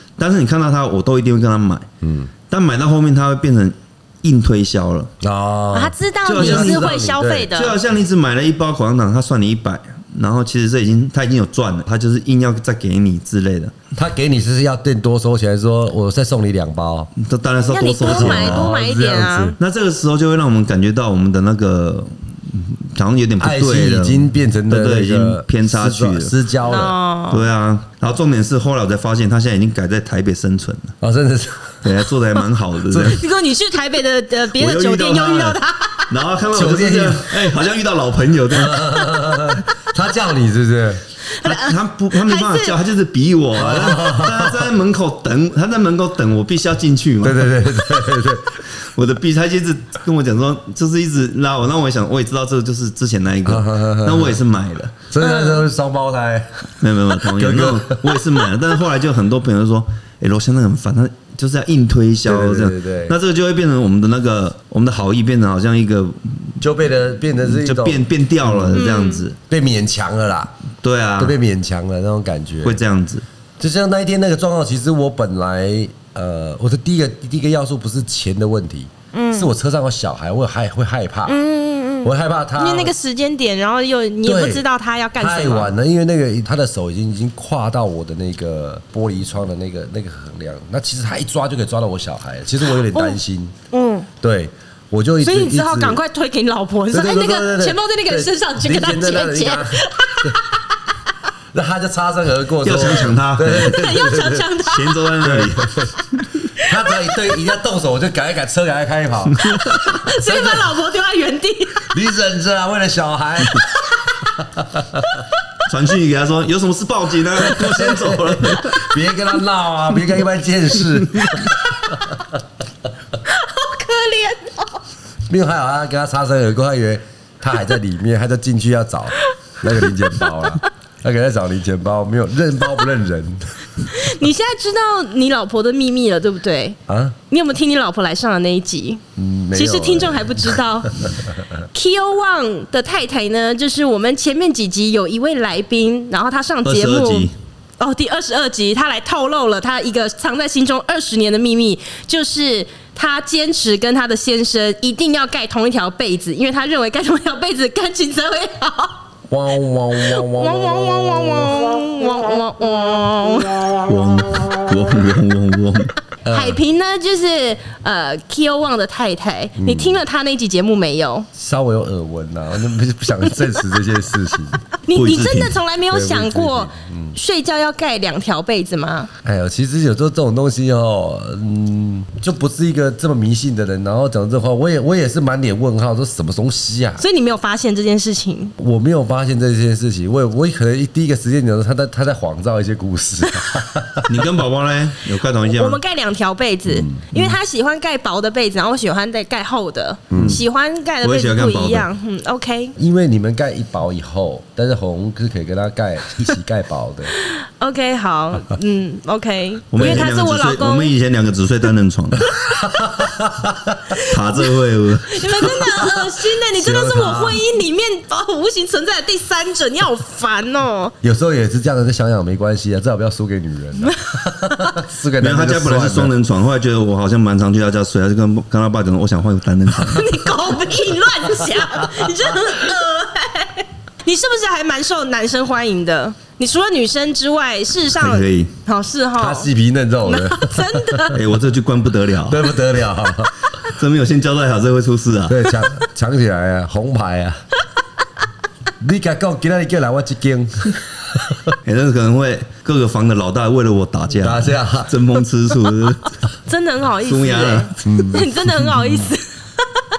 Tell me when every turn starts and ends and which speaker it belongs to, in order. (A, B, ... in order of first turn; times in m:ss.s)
0:00.2-0:01.9 A
0:02.0-0:02.3 B
0:02.5-0:05.1 A
0:05.2-0:07.5 B
0:05.7-0:07.8 C
0:06.2-0:07.0 A
0:07.5-0:13.8 A
0:14.0-0:17.1 B
0:17.2-0:18.7 A
0:17.7-0:19.6 C
0:18.0-0:19.6 B
0:19.6-0:26.3 A
0:23.4-0:27.0 B
0:26.6-0:27.5 C
0:27.3-0:31.0 A
0:31.0-0:31.8 B
0:31.8-0:33.2 A
0:32.9-0:33.2 B
0:33.1-0:36.1 C
0:34.6-0:39.6 A
0:36.5-0:37.5 B
0:38.5-0:41.0 B
0:41.3-0:42.8 C
0:41.4-0:55.1 A
0:43.6-0:44.7 B
0:47.2-0:48.6 B
0:53.4-0:54.4 B
0:55.1-0:58.5 B
0:55.2-0:55.6 C
0:56.8-1:06.6 A
1:02.2-1:03.2 B
1:06.6-1:08.8 B
1:07.4-1:09.4 A
1:08.7-1:09.2 C
1:09.5-1:10.5 B
1:10.8-1:11.4 A
1:11.2-1:12.8 B
1:12.6-1:13.2 A
1:13.6-1:21.4 B
1:19.1-1:19.5 C
1:21.3-1:25.7 C
1:22.0-1:22.9 B
1:24.2-1:24.6 B
1:25.2-1:33.5 B
1:32.8-1:33.2 C
1:33.7-1:34.1 C
1:34.2-1:36.0 B
1:35.2-1:40.7 C
1:36.9-1:40.4 B
1:41.5-1:44.5 B
1:42.6-1:43.8 A
1:43.5-1:45.1 C
1:44.6-1:46.2 A
1:45.2-1:45.9 B
1:46.6-1:47.4 C
1:46.6-1:50.7 B
1:49.4-1:51.9 C
1:51.9-1:53.7 B
1:54.4-1:55.0 B
1:55.7-1:58.9 A
1:57.4-2:01.6 B
2:03.2-2:04.8 C
2:05.3-2:13.5 B
2:13.8-2:16.8 C
2:16.9-2:17.2 B
2:17.3-2:19.0 C
2:19.2-2:20.5 B
2:19.5-2:21.1 C
2:21.7-2:39.0 C
2:26.6-2:27.3 A
2:39.3-2:41.6 B
2:40.0-2:43.9 C
2:43.9-2:45.9 A
2:46.2-2:46.6 B
2:46.3-2:51.3 C
2:49.6-2:50.0 B
2:51.4-2:54.6 B
2:54.8-2:59.1 C
2:54.9-2:55.6 A
2:55.9-2:57.2 B
2:59.2-3:07.0 B
3:07.0-3:08.6 C
3:08.6-3:14.2 B
3:14.1-3:15.8 A
3:15.4-3:22.8 C
3:16.7-3:17.1 B
3:20.1-3:20.4 B
3:20.1-3:20.4 A
3:21.0-3:21.9 A
3:22.8-3:27.1 B
3:27.1-3:30.9 C
3:29.7-3:32.3 A
3:32.3-3:33.8 B
3:34.0-3:35.8 A
3:35.1-3:40.9 C
3:36.0-3:37.4 B
3:41.0-3:46.1 B
3:45.2-3:50.2 A
3:49.8-3:59.5 C
3:58.0-3:58.5 A
3:59.2-4:01.1 B
4:00.0-4:01.2 C
4:01.1-4:02.6 A
4:02.2-4:03.3 B
4:03.7-4:05.6 A
4:05.3-4:07.4 B
4:08.8-4:11.5 B
4:11.6-4:16.2 A
4:14.1-4:15.0 B
4:16.5-4:19.9 C
4:17.0-4:18.0 A
4:17.8-4:18.3 B